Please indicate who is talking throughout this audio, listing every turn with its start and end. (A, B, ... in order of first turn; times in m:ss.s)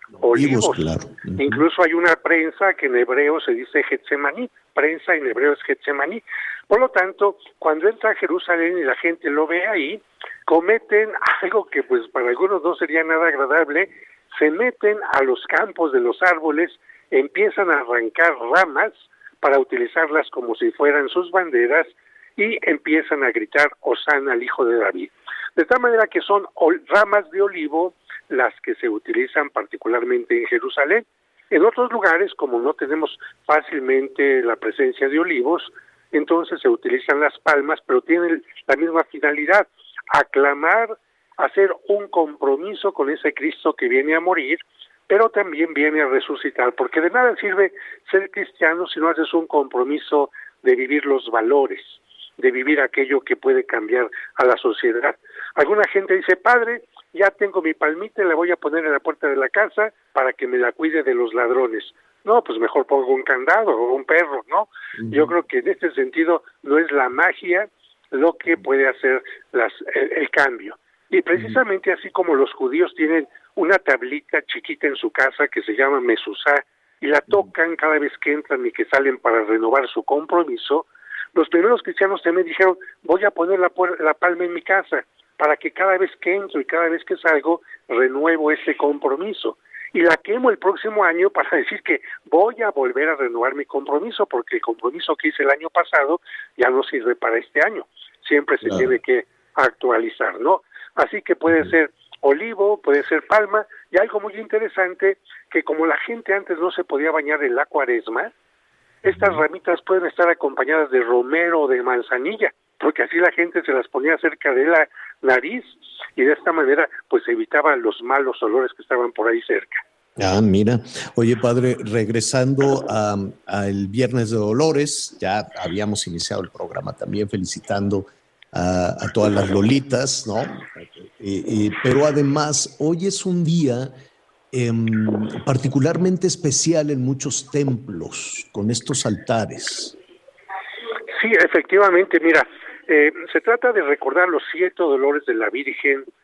0:00.2-0:01.7 A
0:00.2-0:00.8 B
0:01.4-1:48.3 B
1:05.0-1:05.4 A
1:38.6-1:38.9 A
1:49.0-1:59.8 B
1:49.1-1:49.4 A
2:00.2-2:13.9 A
2:14.5-2:20.0 A
2:21.2-2:26.1 B